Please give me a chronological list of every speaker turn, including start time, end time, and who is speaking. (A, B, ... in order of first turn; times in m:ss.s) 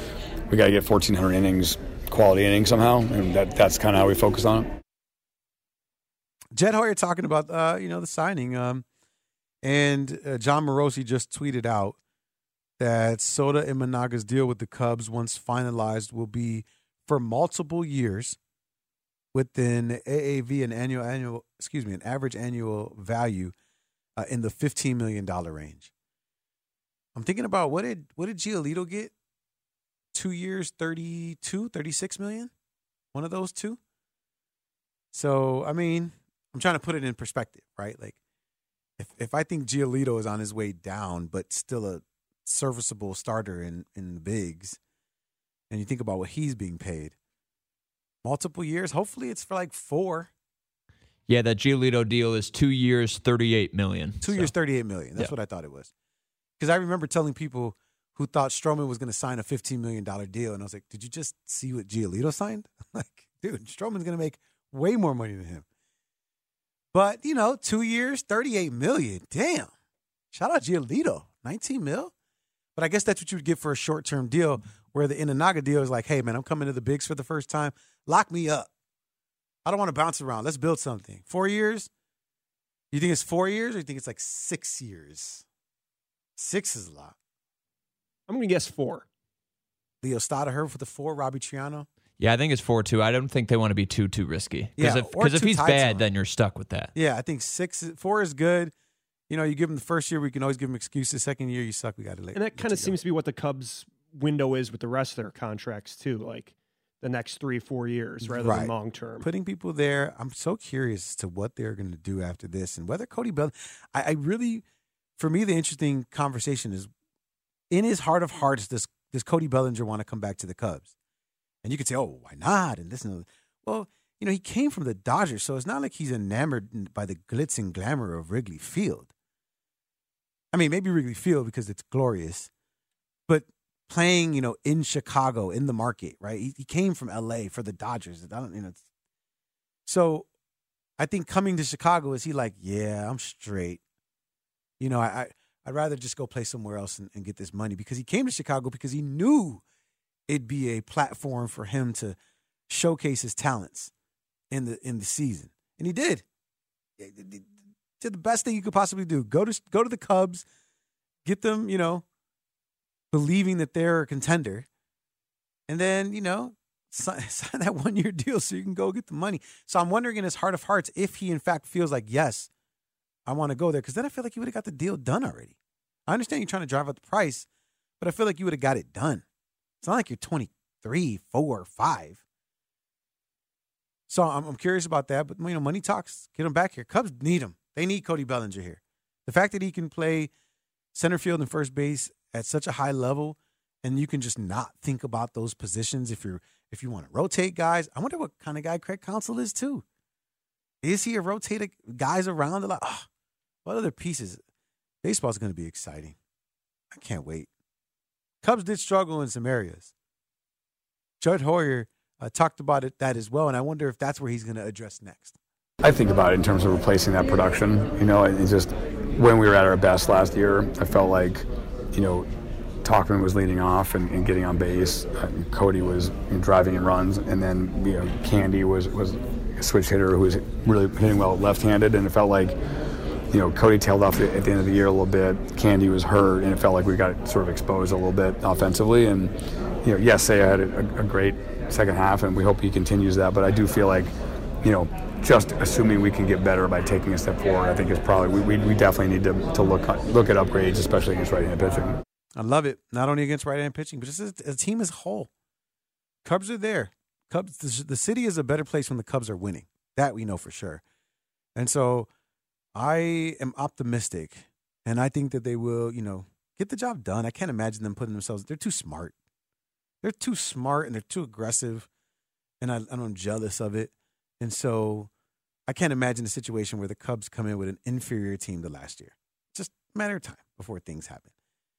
0:00.5-0:04.7 A
0:06.5-0:08.8 B
0:09.6-0:12.0 B
0:12.8-0:18.4 B
0:19.3-0:23.5 B
0:24.2-0:25.9 B
0:27.2-0:29.1 B
0:30.1-0:32.5 B
0:33.1-0:33.8 B
0:35.1-0:38.2 B
0:39.0-0:44.8 B
0:45.7-0:47.2 B
0:48.2-0:50.3 B
0:51.3-0:54.5 C
0:54.2-0:55.9 B
0:56.6-1:05.6 B
1:06.9-1:09.7 B
1:10.3-1:12.1 B
1:12.8-1:18.7 B
1:19.6-1:21.9 B
1:22.9-1:25.4 B
1:26.4-1:27.2 B
1:28.3-1:29.1 D
1:30.0-1:31.9 B
1:32.2-1:36.9 C
1:34.8-1:36.1 B
1:37.0-1:38.7 B
1:39.3-1:43.0 B
1:42.3-1:49.3 D
1:48.2-1:54.6 B
1:55.2-1:56.9 B
1:57.7-2:00.9 B
2:01.6-2:09.1 B
2:10.5-2:12.5 B
2:13.3-2:18.8 B
2:19.8-2:20.3 B
2:21.0-2:23.8 B
2:24.8-2:29.6 B
2:30.3-2:32.2 B
2:32.7-2:33.9 B
2:34.5-2:36.2 B
2:37.0-2:40.4 B
2:41.2-2:42.0 B
2:43.1-2:44.7 B
2:45.7-2:52.5 B
2:53.3-2:55.6 B
2:56.1-2:57.5 B
2:58.0-2:59.2 B
2:59.8-3:02.2 B
3:04.1-3:10.3 B
3:10.9-3:19.8 B
3:20.8-3:23.1 B
3:23.6-3:24.4 B
3:25.0-3:26.2 B
3:26.9-3:27.5 B
3:28.4-3:29.9 B
3:31.2-3:35.4 B
3:35.8-3:42.3 A
3:42.8-3:52.6 A
3:53.3-3:59.3 A
3:59.8-4:04.1 A
4:04.6-4:12.0 A
4:12.4-4:15.3 B
4:16.2-4:20.8 B
4:21.6-4:22.1 B
4:22.7-4:29.2 B
4:30.0-4:31.9 B
4:32.6-4:35.1 B
4:35.7-4:41.3 B